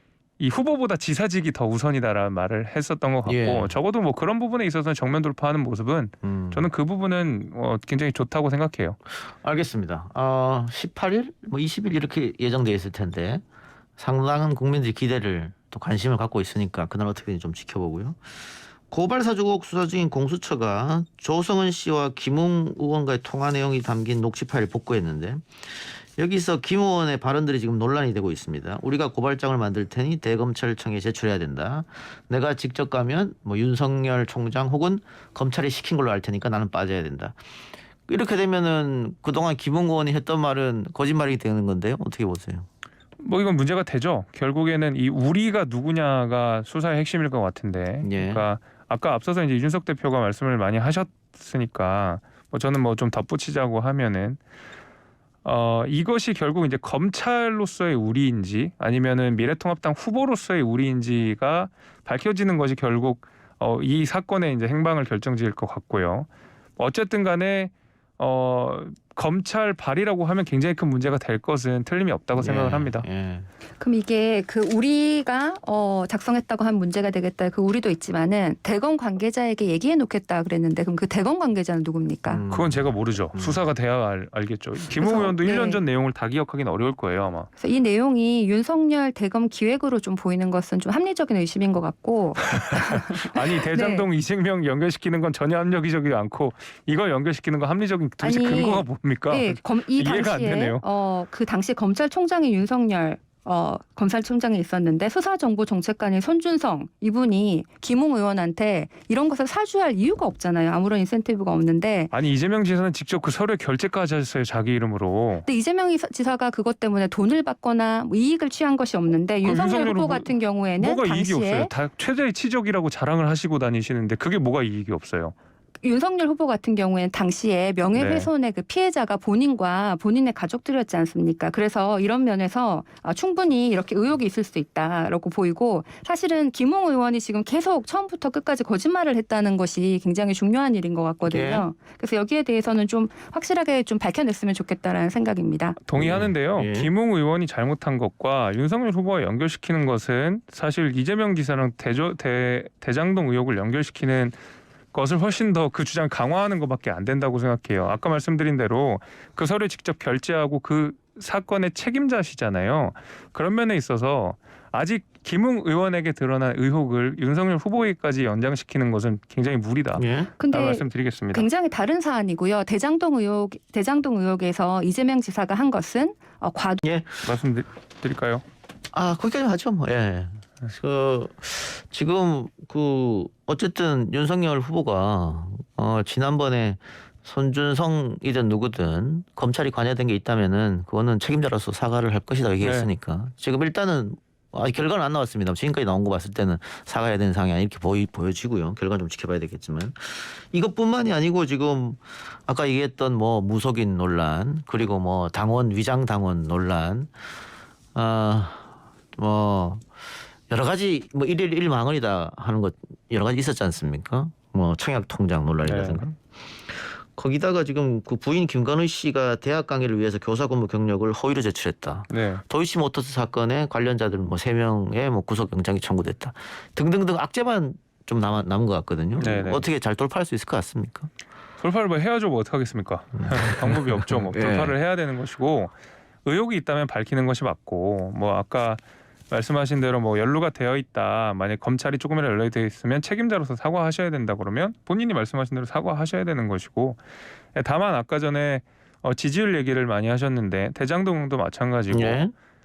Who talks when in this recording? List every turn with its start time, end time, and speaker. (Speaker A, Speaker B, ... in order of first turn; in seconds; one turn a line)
Speaker A: 0.4-9.0
Speaker B: 3.3-3.7
Speaker B: 6.2-6.7
Speaker B: 9.3-13.4
Speaker B: 14.0-37.4
Speaker B: 38.1-42.7
Speaker A: 43.2-54.4
Speaker B: 48.0-48.5
Speaker A: 55.5-73.0
Speaker B: 72.4-73.5
Speaker C: 73.8-82.4
Speaker B: 82.3-83.7
Speaker A: 82.5-87.5
Speaker C: 85.0-85.8
Speaker C: 87.6-94.1
Speaker A: 92.4-100.8
Speaker C: 98.2-112.1
Speaker A: 112.1-115.5
Speaker C: 115.5-121.7
Speaker A: 119.4-125.3
Speaker C: 125.8-145.8
Speaker A: 128.0-128.3
Speaker B: 141.3-141.7
Speaker A: 145.8-154.4
Speaker B: 145.9-146.9
Speaker A: 154.9-171.5
Speaker B: 170.0-170.3
Speaker C: 170.4-176.8
Speaker B: 176.8-177.3
Speaker A: 177.2-178.4
Speaker B: 178.9-207.1
Speaker A: 192.6-192.9
Speaker B: 207.9-209.8
Speaker B: 210.5-231.1
Speaker A: 215.7-216.0
Speaker A: 222.1-222.4
Speaker A: 229.2-229.6
Speaker A: 231.6-235.7
Speaker B: 233.3-234.8
Speaker A: 236.2-247.0
Speaker A: 247.6-252.2
Speaker B: 251.9-252.3